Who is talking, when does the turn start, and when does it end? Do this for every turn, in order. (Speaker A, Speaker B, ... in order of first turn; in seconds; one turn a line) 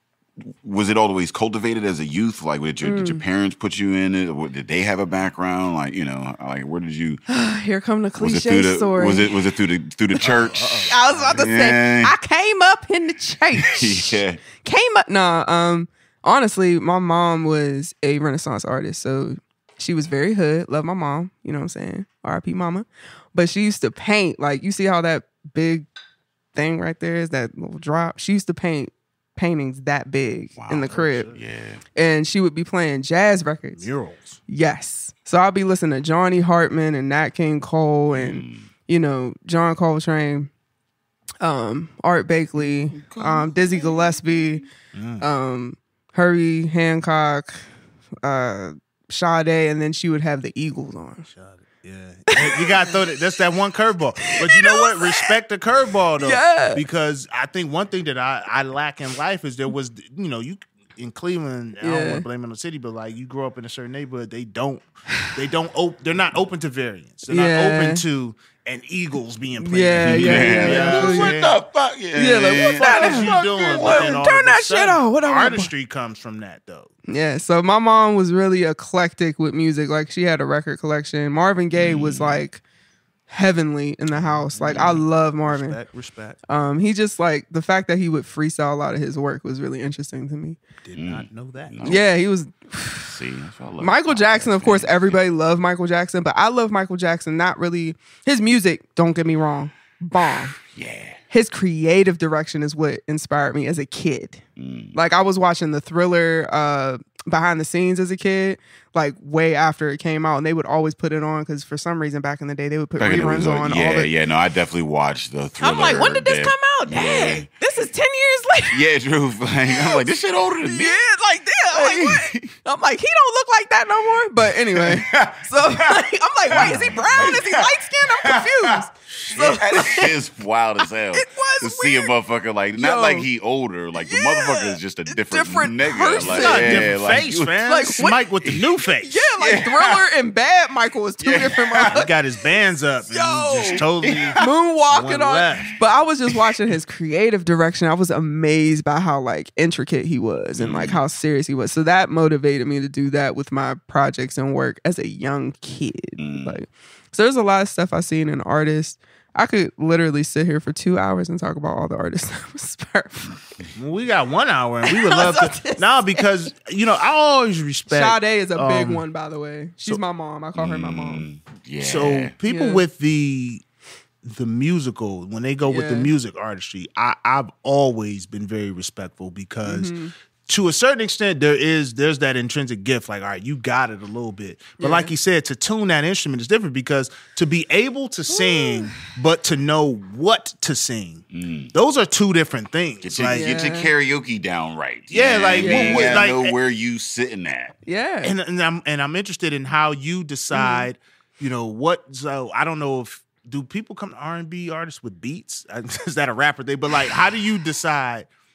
Speaker A: 0.4-7.2
Speaker B: 2.8-3.2
Speaker B: 7.3-9.3
Speaker A: 8.2-12.2
Speaker C: 10.2-11.5
Speaker B: 10.9-25.9
Speaker A: 13.6-14.4
Speaker B: 26.5-31.3
Speaker A: 30.6-31.8
Speaker C: 30.9-31.3
Speaker B: 31.9-33.9
Speaker C: 33.8-34.4
Speaker B: 34.5-40.5
Speaker A: 38.1-38.7
Speaker B: 41.4-44.6
Speaker A: 42.9-44.6
Speaker C: 44.9-45.3
Speaker B: 45.2-47.6
Speaker B: 48.2-51.3
Speaker C: 51.3-71.6
Speaker B: 52.3-52.9
Speaker B: 54.4-55.3
Speaker B: 56.2-56.8
Speaker B: 61.8-62.2
Speaker B: 67.3-68.0
Speaker B: 69.6-71.3
Speaker A: 70.0-74.2
Speaker B: 72.1-75.7
Speaker C: 72.8-76.9
Speaker B: 77.1-82.6
Speaker A: 81.7-82.4
Speaker B: 83.3-85.8
Speaker C: 84.1-86.4
Speaker A: 84.7-85.0
Speaker B: 86.5-90.6
Speaker C: 90.8-91.9
Speaker A: 90.9-92.1
Speaker B: 91.8-93.1
Speaker A: 93.0-95.2
Speaker B: 93.8-100.5
Speaker A: 100.6-101.2
Speaker B: 101.3-104.4
Speaker A: 104.6-105.0
Speaker B: 104.9-114.1
Speaker A: 113.0-117.5
Speaker B: 115.6-118.8
Speaker A: 118.7-121.0
Speaker B: 119.7-120.0
Speaker B: 120.6-130.2
Speaker A: 121.7-122.5
Speaker A: 124.5-128.8
Speaker C: 126.5-127.3
Speaker C: 129.1-129.6
Speaker A: 129.6-137.6
Speaker B: 131.1-132.1
Speaker B: 132.8-133.3
Speaker B: 134.0-137.0
Speaker C: 136.2-139.3
Speaker B: 137.7-138.2
Speaker B: 139.0-142.1
Speaker A: 139.4-140.0
Speaker A: 141.2-142.1
Speaker C: 141.9-144.4
Speaker B: 143.1-143.8
Speaker A: 143.6-144.4
Speaker B: 144.4-163.4
Speaker C: 144.9-145.8
Speaker A: 150.6-151.0
Speaker A: 156.2-156.6
Speaker C: 163.7-169.0
Speaker B: 164.8-166.3
Speaker B: 167.9-171.2
Speaker A: 170.5-172.3
Speaker C: 171.8-173.6
Speaker B: 172.4-172.8
Speaker C: 174.2-179.9
Speaker B: 175.7-176.1
Speaker B: 179.6-180.1
Speaker C: 180.4-193.5
Speaker B: 184.8-185.1
Speaker B: 188.3-189.0
Speaker A: 191.3-191.7
Speaker A: 193.0-197.8
Speaker B: 193.3-193.9
Speaker C: 195.1-196.5
Speaker B: 195.6-196.2
Speaker B: 197.8-198.3
Speaker C: 198.2-208.3
Speaker B: 200.5-200.9